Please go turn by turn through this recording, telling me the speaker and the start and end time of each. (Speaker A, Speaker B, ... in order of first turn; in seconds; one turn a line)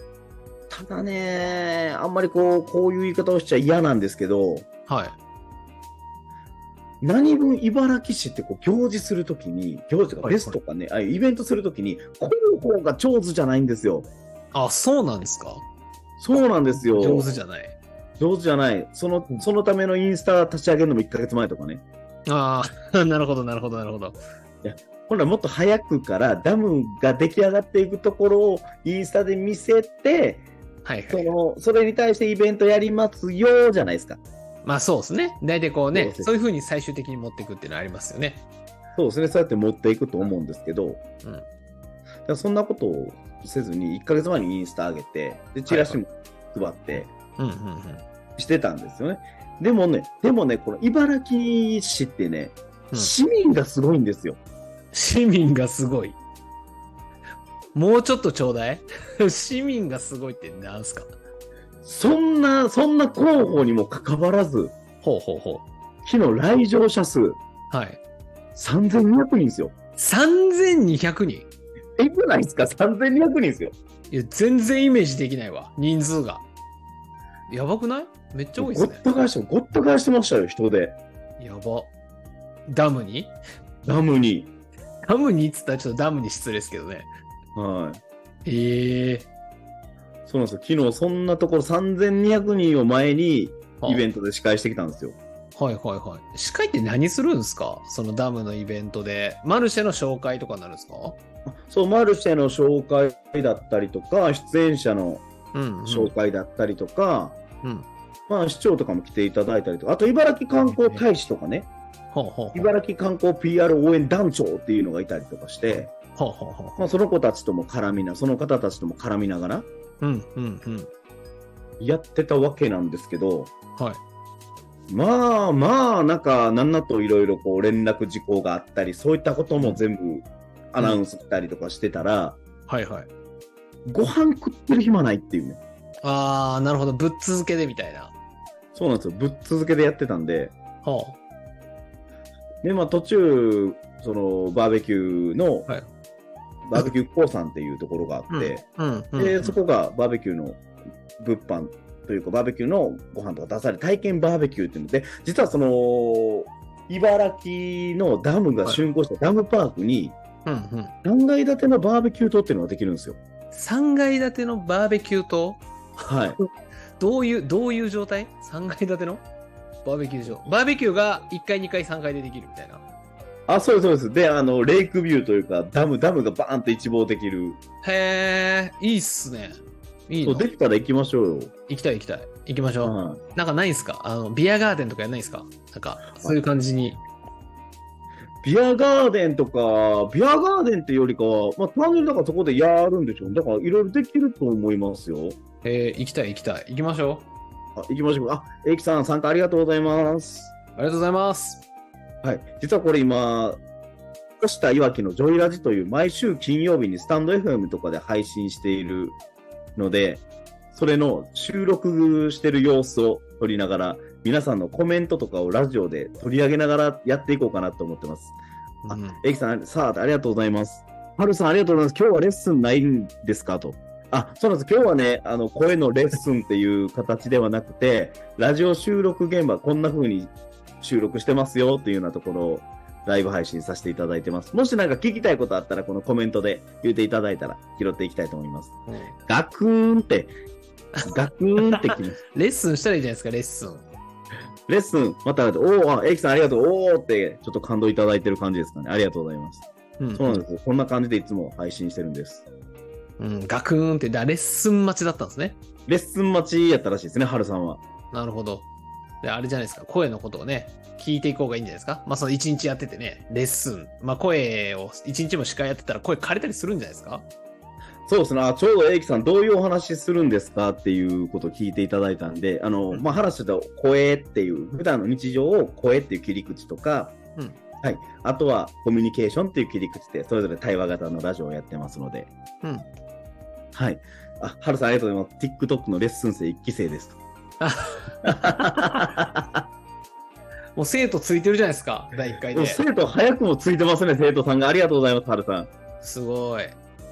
Speaker A: 0.7-4.7
Speaker B: 4.9-5.2
Speaker A: 7.0-14.1
Speaker B: 10.2-10.6
Speaker B: 14.5-15.6
Speaker A: 16.2-17.3
Speaker B: 16.8-17.8
Speaker A: 18.2-21.8
Speaker B: 22.3-24.2
Speaker A: 24.6-30.4
Speaker B: 30.8-31.3
Speaker A: 31.1-34.2
Speaker B: 34.6-38.4
Speaker A: 35.9-36.3
Speaker A: 38.9-41.0
Speaker A: 42.3-47.1
Speaker B: 45.7-46.0
Speaker B: 47.4-48.0
Speaker A: 48.4-54.4
Speaker B: 54.9-56.2
Speaker B: 57.7-61.1
Speaker A: 61.8-64.7
Speaker B: 65.0-65.6
Speaker A: 66.0-67.4
Speaker B: 67.7-68.0
Speaker A: 68.5-69.7
Speaker B: 70.0-71.5
Speaker A: 72.0-73.7
Speaker B: 74.1-76.4
Speaker B: 77.5-79.0
Speaker A: 78.6-81.0
Speaker B: 81.4-81.9
Speaker B: 82.7-83.3
Speaker A: 83.8-84.5
Speaker B: 85.0-87.1
Speaker A: 87.5-88.0
Speaker B: 88.4-89.3
Speaker A: 90.3-95.2
Speaker B: 95.5-101.2
Speaker A: 101.5-105.2
Speaker B: 105.5-106.1
Speaker A: 105.8-107.4
Speaker A: 108.3-111.7
Speaker B: 110.6-111.0
Speaker B: 112.1-112.7
Speaker A: 112.5-115.9
Speaker B: 116.1-116.8
Speaker A: 116.8-119.7
Speaker B: 120.0-120.9
Speaker A: 121.8-123.5
Speaker A: 124.9-132.4
Speaker B: 132.7-133.1
Speaker A: 133.9-135.6
Speaker B: 136.0-138.1
Speaker A: 138.7-140.5
Speaker B: 140.8-141.2
Speaker A: 142.6-145.7
Speaker A: 146.7-148.6
Speaker B: 148.3-149.6
Speaker A: 149.2-150.6
Speaker A: 151.2-160.2
Speaker B: 160.4-160.9
Speaker A: 161.0-163.2
Speaker B: 163.5-166.4
Speaker A: 166.1-166.4
Speaker B: 167.0-169.2
Speaker B: 169.8-172.8
Speaker A: 173.5-177.6
Speaker B: 177.8-180.4
Speaker A: 180.2-181.5
Speaker B: 181.7-187.0
Speaker A: 182.8-183.2
Speaker A: 188.4-195.4
Speaker B: 195.6-197.3
Speaker A: 197.8-200.5
Speaker B: 200.8-201.6
Speaker A: 202.2-203.6
Speaker A: 204.4-209.2
Speaker A: 209.8-218.3
Speaker B: 218.8-219.2
Speaker A: 218.9-238.7
Speaker B: 238.9-239.2
Speaker A: 239.3-240.3
Speaker B: 240.9-243.9
Speaker A: 241.1-242.2
Speaker A: 244.7-252.4
Speaker B: 250.0-250.4
Speaker B: 253.2-255.6
Speaker A: 255.9-257.8
Speaker B: 258.1-258.7
Speaker B: 259.2-267.2
Speaker A: 268.1-277.2
Speaker A: 277.8-282.3
Speaker B: 282.6-282.9
Speaker A: 283.7-287.2
Speaker B: 287.6-289.0
Speaker A: 288.2-289.6
Speaker B: 290.8-292.8
Speaker A: 292.5-295.7
Speaker B: 296.0-296.8